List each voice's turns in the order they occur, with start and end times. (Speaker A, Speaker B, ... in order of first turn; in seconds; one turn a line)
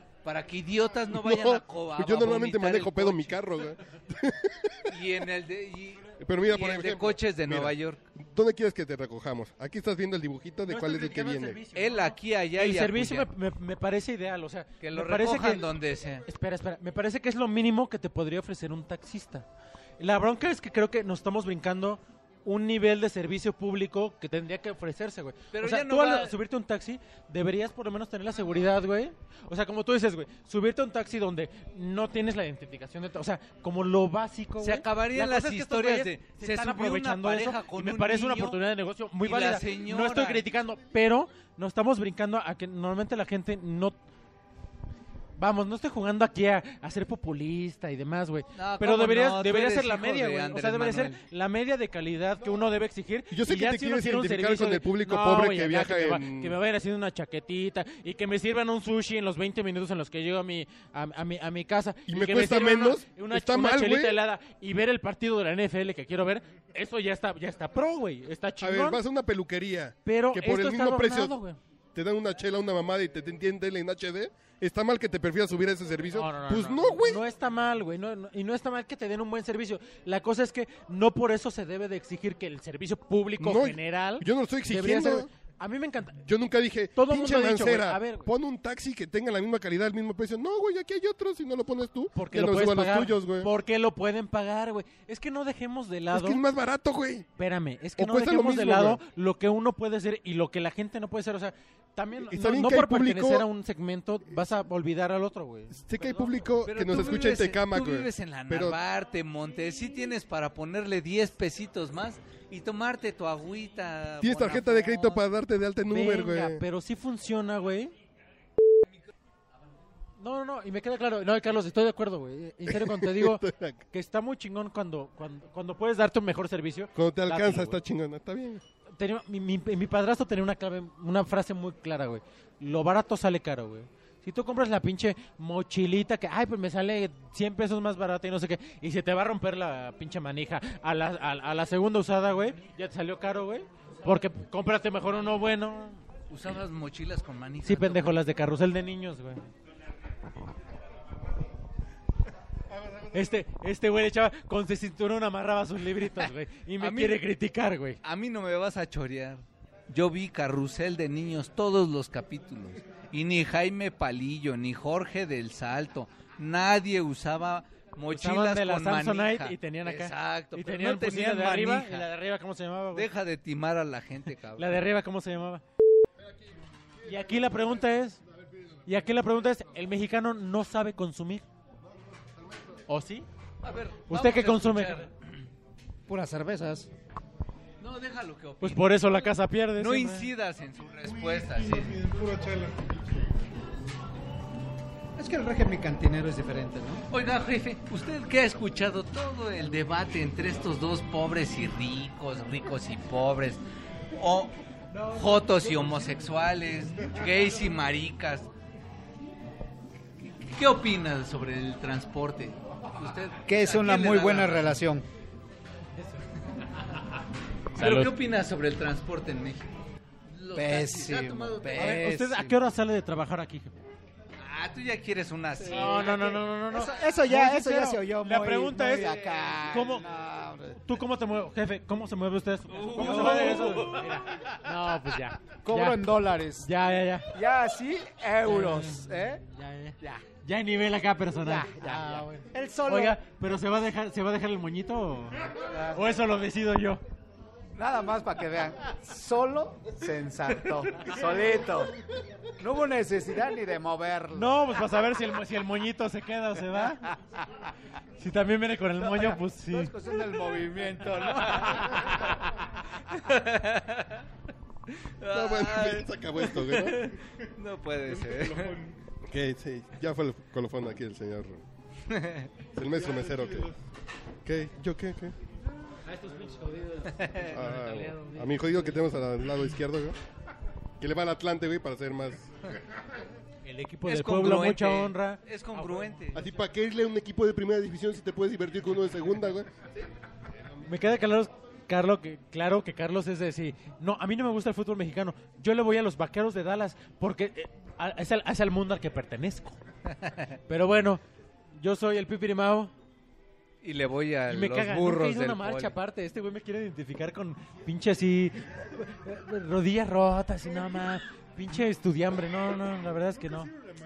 Speaker A: 0.2-3.6
Speaker B: 1.1-5.0
Speaker A: 4.9-8.0
Speaker B: 6.2-11.6
Speaker C: 10.7-15.7
Speaker A: 11.7-13.3
Speaker A: 14.8-16.2
Speaker C: 16.3-19.5
Speaker C: 20.0-44.0
Speaker A: 25.5-26.4
Speaker A: 34.6-38.6
Speaker A: 39.2-40.4
Speaker C: 45.4-69.0
Speaker A: 48.6-51.2
Speaker B: 53.3-56.6
Speaker B: 62.1-64.2
Speaker B: 68.6-71.4
Speaker C: 70.0-71.6
Speaker B: 72.0-77.2
Speaker C: 76.1-86.3
Speaker B: 83.4-85.3
Speaker B: 86.2-93.5
Speaker C: 87.0-88.3
Speaker C: 92.2-96.4
Speaker B: 96.1-97.3
Speaker C: 97.4-106.3
Speaker B: 98.0-99.0
Speaker B: 102.3-103.5
Speaker B: 105.8-108.8
Speaker A: 106.7-115.2
Speaker B: 114.2-116.6
Speaker C: 115.9-117.9
Speaker C: 120.2-127.8
Speaker B: 122.7-123.8
Speaker B: 127.0-128.6
Speaker C: 129.0-146.0
Speaker A: 146.3-148.2
Speaker C: 147.6-149.4
Speaker D: 152.7-153.2
Speaker C: 153.1-158.0
Speaker A: 156.8-157.2
Speaker A: 158.0-172.1
Speaker C: 168.1-173.1
Speaker A: 172.9-174.8
Speaker C: 174.6-175.6
Speaker C: 177.0-178.2
Speaker C: 178.8-181.4
Speaker C: 182.9-183.3
Speaker A: 183.6-185.1
Speaker C: 184.1-185.1
Speaker E: 186.1-186.9
Speaker A: 187.8-192.0
Speaker C: 188.6-190.3
Speaker D: 191.0-193.3
Speaker E: 195.2-197.0
Speaker A: 197.1-203.6
Speaker A: 204.2-208.5
Speaker A: 210.2-214.8
Speaker E: 213.5-215.1
Speaker C: 217.8-218.1
Speaker A: 217.8-219.7
Speaker A: 220.3-222.6
Speaker E: 220.5-221.9
Speaker C: 221.7-223.7
Speaker A: 224.4-226.3
Speaker C: 225.6-230.1
Speaker E: 225.9-226.2
Speaker E: 226.7-230.9
Speaker C: 230.8-236.1
Speaker A: 232.7-233.6
Speaker E: 232.8-234.2
Speaker E: 235.6-236.7
Speaker C: 236.6-237.3
Speaker E: 237.3-239.4
Speaker C: 238.4-247.0
Speaker E: 240.0-240.3
Speaker E: 241.4-243.2
Speaker E: 245.6-246.0
Speaker E: 247.8-252.0
Speaker E: 252.6-254.6
Speaker C: 254.3-257.1
Speaker C: 258.2-259.9
Speaker E: 259.0-262.3
Speaker A: 261.5-262.4
Speaker A: 263.1-264.2
Speaker A: 265.0-268.8
Speaker B: 265.3-267.1
Speaker D: 268.1-269.0
Speaker B: 269.3-271.6
Speaker A: 272.1-272.5
Speaker B: 272.8-273.7
Speaker D: 272.9-273.8
Speaker B: 274.4-275.4
Speaker C: 276.1-279.0
Speaker B: 277.4-280.2
Speaker B: 281.0-282.5
Speaker C: 283.6-286.2
Speaker A: 284.1-286.4
Speaker B: 286.3-289.7
Speaker C: 290.9-299.8
Speaker A: 300.2-300.5
Speaker C: 300.7-301.2
Speaker C: 301.8-302.9
Speaker A: 303.8-305.9
Speaker C: 304.5-313.7